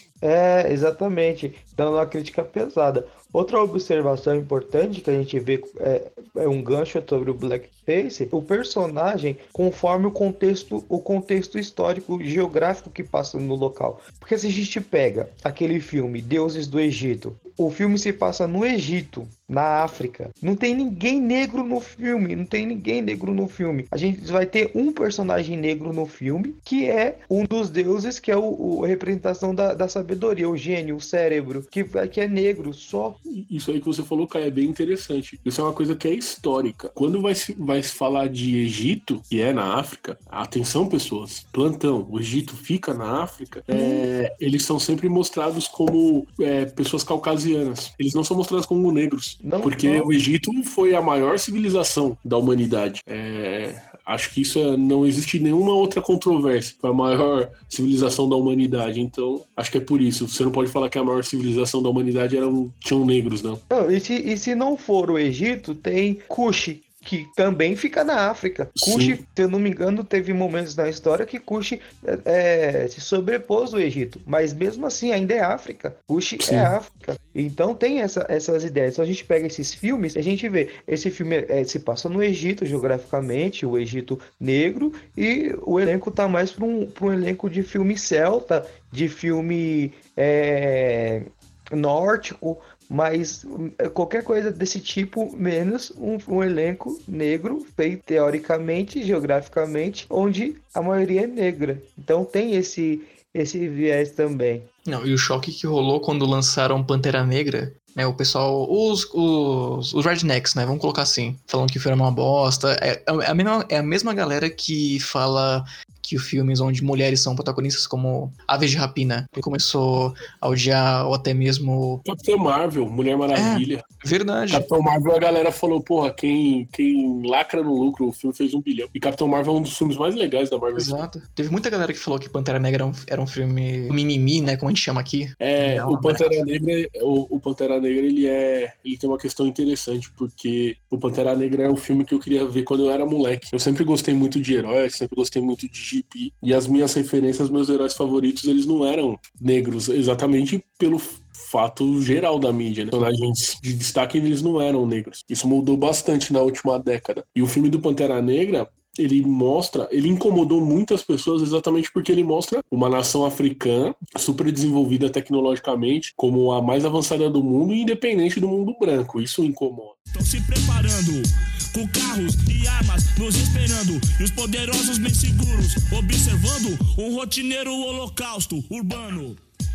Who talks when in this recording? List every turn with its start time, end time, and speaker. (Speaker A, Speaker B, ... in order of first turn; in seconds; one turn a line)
Speaker A: 0.2-33.2
Speaker B: 33.3-63.6
Speaker A: 43.7-44.0
Speaker A: 49.4-50.1
Speaker A: 63.7-104.7
Speaker B: 68.8-69.2
Speaker B: 76.4-76.7
Speaker C: 104.9-122.0
Speaker B: 122.0-123.8
Speaker C: 123.3-124.7
Speaker B: 124.5-131.1
Speaker C: 130.8-136.4
Speaker B: 135.4-169.9
Speaker D: 170.1-179.4